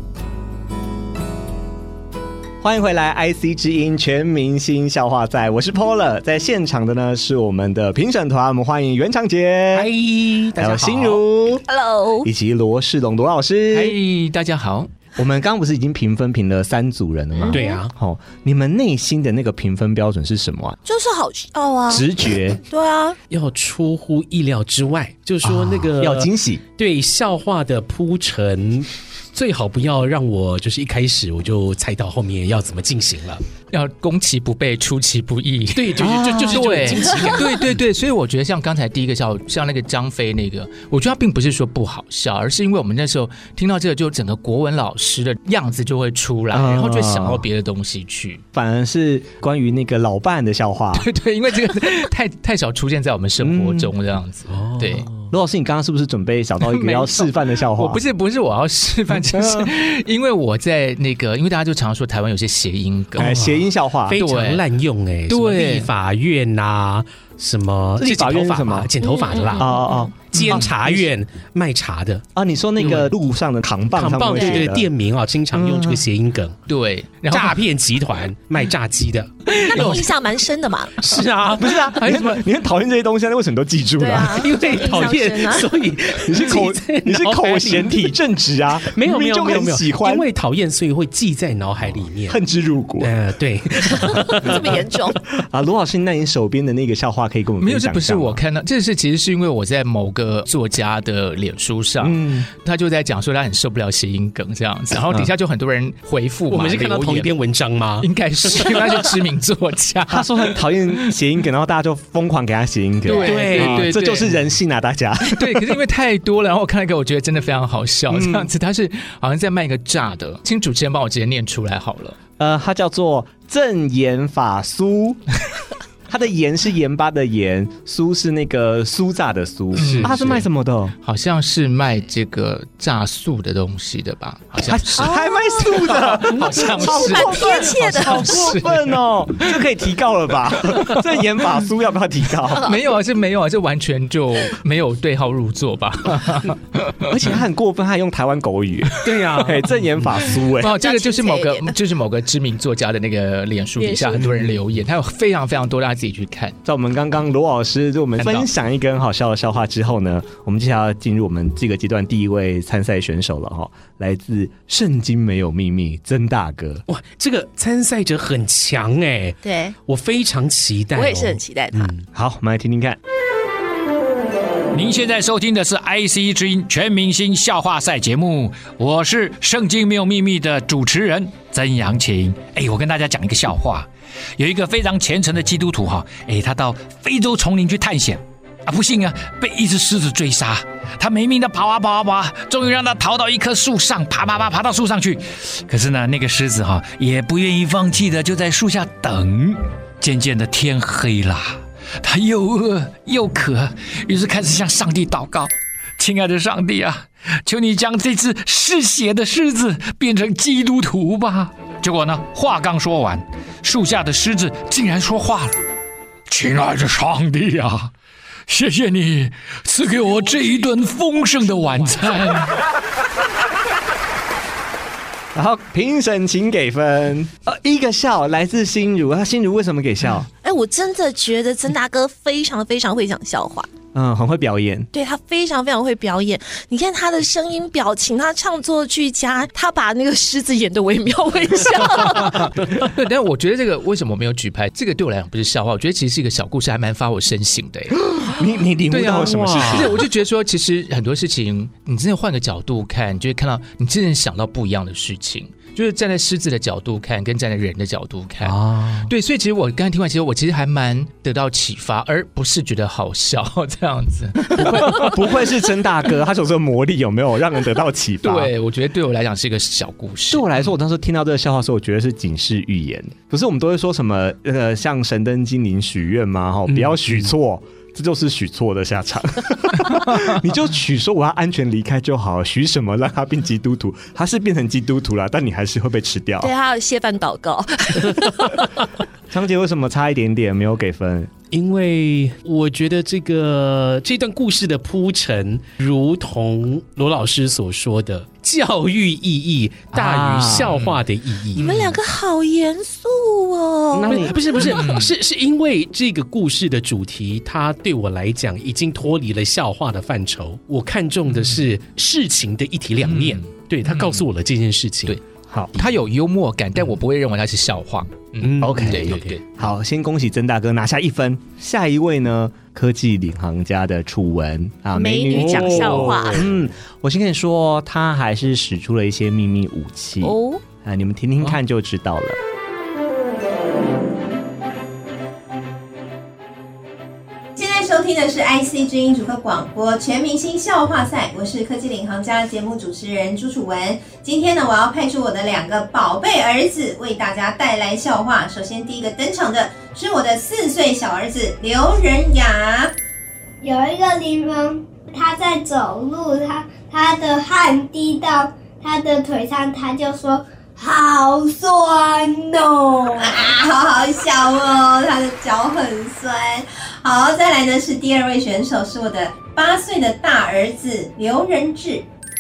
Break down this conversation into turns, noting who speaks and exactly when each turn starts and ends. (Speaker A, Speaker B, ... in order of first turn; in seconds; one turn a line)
Speaker A: 2.6-9.9
Speaker B: 9.7-11.2
Speaker A: 10.6-11.6
Speaker C: 11.7-12.3
Speaker A: 12.2-14.0
Speaker D: 13.7-14.9
Speaker A: 15.2-20.8
Speaker C: 17.4-17.8
Speaker B: 17.5-17.9
Speaker C: 20.9-22.1
Speaker A: 21.9-22.6
Speaker C: 22.6-23.2
Speaker B: 23.3-33.4
Speaker A: 25.4-26.6
Speaker D: 33.7-48.4
Speaker B: 35.7-37.7
Speaker A: 36.0-36.9
Speaker A: 46.5-47.4
Speaker A: 48.5-51.1
Speaker D: 50.9-55.1
Speaker A: 53.4-53.9
Speaker B: 54.5-55.2
Speaker A: 55.3-58.0
Speaker D: 56.6-63.3
Speaker A: 59.1-59.7
Speaker A: 63.1-64.2
Speaker B: 63.2-72.2
Speaker D: 64.2-64.6
Speaker D: 65.3-65.9
Speaker A: 68.0-68.9
Speaker C: 69.0-70.0
Speaker A: 69.5-71.1
Speaker A: 72.3-74.9
Speaker B: 72.8-73.1
Speaker B: 73.9-76.6
Speaker C: 74.3-74.6
Speaker A: 75.5-76.0
Speaker D: 76.7-77.6
Speaker B: 77.3-80.1
Speaker C: 79.6-81.0
Speaker B: 81.0-82.3
Speaker A: 81.6-84.4
Speaker C: 84.0-85.7
Speaker B: 84.3-88.0
Speaker A: 86.2-90.2
Speaker B: 88.9-92.4
Speaker A: 92.3-93.1
Speaker B: 93.0-94.8
Speaker C: 94.2-95.2
Speaker A: 95.5-98.4
Speaker D: 97.6-107.3
Speaker A: 102.0-102.5
Speaker B: 106.5-109.0
Speaker D: 108.0-110.6
Speaker A: 110.1-115.6
Speaker D: 113.0-114.3
Speaker B: 113.1-114.0
Speaker D: 115.2-122.2
Speaker A: 118.1-118.5
Speaker A: 122.4-125.2
Speaker A: 126.1-130.9
Speaker D: 129.8-130.4
Speaker B: 129.8-130.2
Speaker D: 131.0-139.0
Speaker A: 134.6-142.6
Speaker C: 135.0-135.7
Speaker C: 136.7-138.4
Speaker C: 142.5-142.8
Speaker D: 142.6-147.1
Speaker A: 147.1-150.8
Speaker B: 149.0-149.7
Speaker D: 150.5-156.6
Speaker C: 150.7-151.7
Speaker C: 153.8-154.2
Speaker A: 156.6-166.8
Speaker D: 158.2-158.4
Speaker B: 166.9-172.0
Speaker C: 169.4-169.8
Speaker C: 170.9-171.9
Speaker A: 172.1-173.0
Speaker E: 174.7-215.6
Speaker E: 216.3-217.9
Speaker E: 218.5-222.6
Speaker A: 225.3-230.3
Speaker C: 230.4-233.7
Speaker A: 233.9-234.9
Speaker C: 234.9-242.5
Speaker D: 242.2-248.0
Speaker A: 248.1-250.0
Speaker D: 248.9-265.5
Speaker B: 249.2-249.9
Speaker A: 258.4-259.1
Speaker A: 264.5-268.5
Speaker D: 268.2-270.4
Speaker A: 270.3-286.5
Speaker B: 276.7-277.0
Speaker C: 286.4-288.5
Speaker A: 289.3-291.3
Speaker B: 291.5-301.8
Speaker A: 299.9-300.7
Speaker C: 301.5-304.3
Speaker A: 303.9-304.5
Speaker B: 304.0-315.2
Speaker D: 304.6-305.1
Speaker D: 313.0-314.2
Speaker D: 315.7-319.4
Speaker B: 318.4-319.4
Speaker A: 318.6-332.4
Speaker C: 324.9-326.4
Speaker B: 325.3-326.4
Speaker C: 330.2-330.6
Speaker F: 337.6-352.9
Speaker G: 353.6-363.5
Speaker F: 363.2-372.0